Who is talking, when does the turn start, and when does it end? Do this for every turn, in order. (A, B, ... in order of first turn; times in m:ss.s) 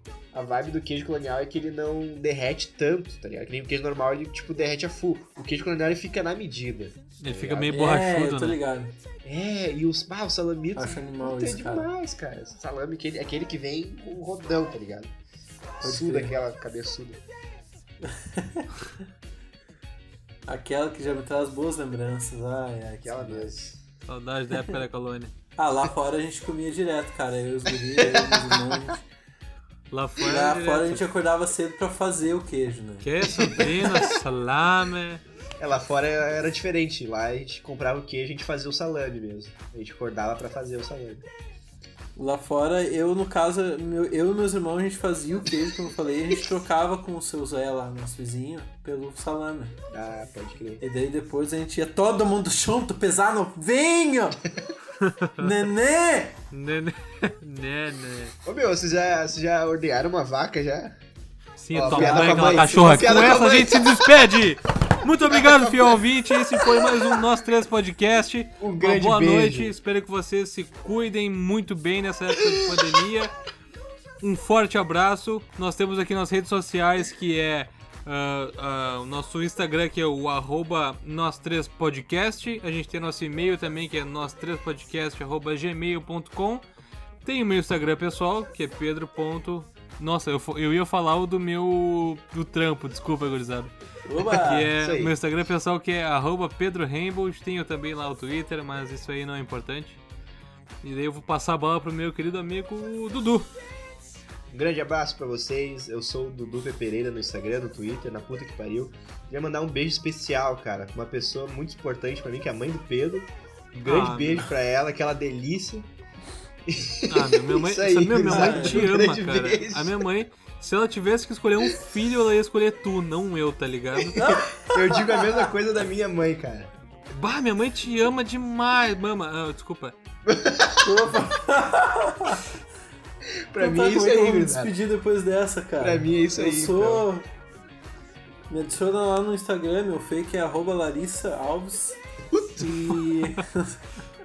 0:00.3-0:07.8 A
0:07.2-0:08.6 B
0:07.7-0:09.0 C
0:09.2-0:15.1 A
0:10.8-0:11.9 C
0:15.8-0:17.2 A
0:15.8-0:16.4 C
0:18.0-0:18.7 C
0:20.4-0:23.6 C
0:23.0-0:23.8 A
0:24.0-0:25.3 B
0:25.6-0:29.0 C
0:27.9-0:28.9 A
0:29.9-0:31.0 B
0:30.2-0:33.5 C
0:33.0-0:35.2 B
0:33.3-0:34.2 A
0:35.6-0:41.3 A
0:42.2-0:49.8 C
0:49.9-0:50.8 A
0:50.8-0:54.4 C
0:55.0-0:55.5 B
0:55.4-0:56.4 C
0:56.5-0:58.3 B
0:58.4-1:01.0 A
1:01.6-1:13.3 B
1:01.7-1:04.4 A
1:01.8-1:03.6 C
1:05.3-1:06.0 A
1:06.6-1:07.2 A
1:08.6-1:09.8 A
1:12.4-1:12.9 A
1:14.2-1:26.6 B
1:27.2-1:40.0 B
1:34.0-1:34.7 C
1:34.8-1:35.1 A
1:40.8-1:43.5 B
1:44.5-1:55.9 A
1:53.8-1:54.5 B
1:56.6-2:00.1 A
1:57.1-2:04.2 B
1:58.2-1:58.8 C
2:04.0-2:06.7 A
2:04.1-2:05.5 C
2:07.1-2:10.0 B
2:10.2-2:11.2 A
2:10.8-2:12.4 C
2:13.5-2:14.7 A
2:13.6-2:17.3 C
2:15.8-2:17.1 A
2:18.5-2:22.0 C
2:22.3-2:23.0 A
2:22.6-2:23.8 C